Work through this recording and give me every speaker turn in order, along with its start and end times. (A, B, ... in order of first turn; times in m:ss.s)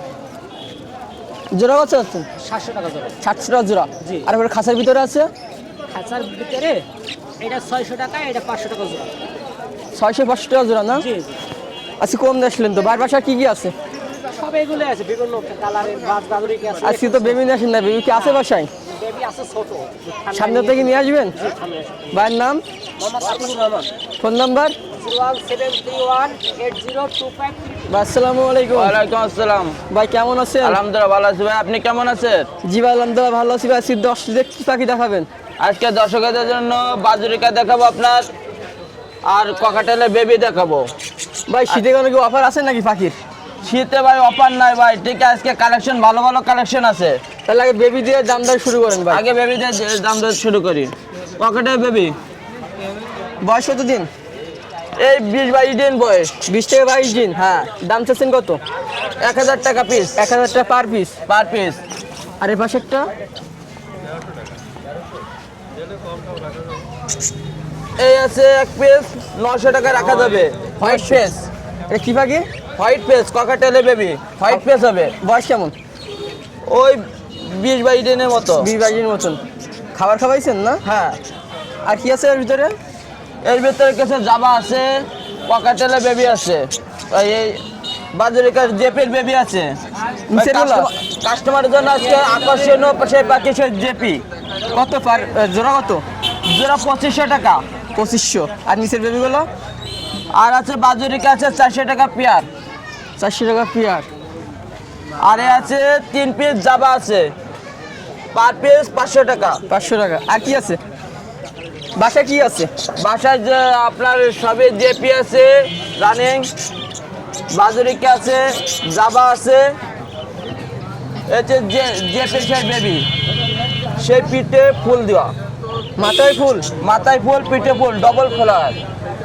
0:01.5-0:02.3 A
0:02.4-0:03.2 B
0:03.2-0:05.3 A
0:05.9-0:06.9 B
0:07.4-0:09.2 B
0:09.9-0:11.1 A
0:11.0-0:11.4 B
0:12.0-0:13.7 A
0:14.4-0:17.4 B
0:16.8-0:18.7 A
0:18.1-0:22.2 B
0:20.3-0:21.4 A
0:22.1-0:22.6 A
0:23.0-0:23.9 B
0:24.2-0:24.8 A
0:24.9-0:27.9 B
0:27.9-0:29.0 A
0:28.7-0:29.8 C
0:29.9-0:30.8 A
0:30.6-0:32.5 C
0:32.6-0:35.3 A
0:35.6-0:38.3 C
0:39.3-0:40.9 C
0:41.5-0:43.2 A
0:43.6-0:47.2 C
0:47.5-0:49.2 A
0:49.1-0:52.2 C
0:53.4-0:54.1 A
0:55.0-0:56.4 C
0:56.5-0:58.6 A
0:57.4-0:57.7 C
0:59.2-1:00.2 C
1:00.2-1:01.2 A
1:01.3-1:01.8 C
1:02.4-1:03.1 A
1:08.0-1:11.5 C
1:10.8-1:11.2 A
1:11.9-1:12.5 A
1:12.8-1:15.1 C
1:15.2-1:15.7 A
1:16.6-1:18.7 C
1:18.6-1:19.4 A
1:19.9-1:20.8 A
1:20.8-1:21.2 C
1:21.8-1:22.7 A
1:23.4-1:27.6 C
1:28.1-1:29.8 C
1:30.3-1:30.9 A
1:30.3-1:34.2 C
1:34.7-1:36.0 A
1:36.5-1:37.6 C
1:38.0-1:39.5 A
1:40.3-1:42.5 C
1:43.2-1:44.1 A
1:45.2-1:47.3 C
1:48.3-1:49.6 C
1:49.7-1:50.8 A
1:52.0-1:52.7 A
1:53.0-1:56.5 C
1:57.5-1:59.8 C
2:01.3-2:03.1 C
2:04.0-2:05.3 C
2:06.0-2:06.7 A
2:06.8-2:08.8 C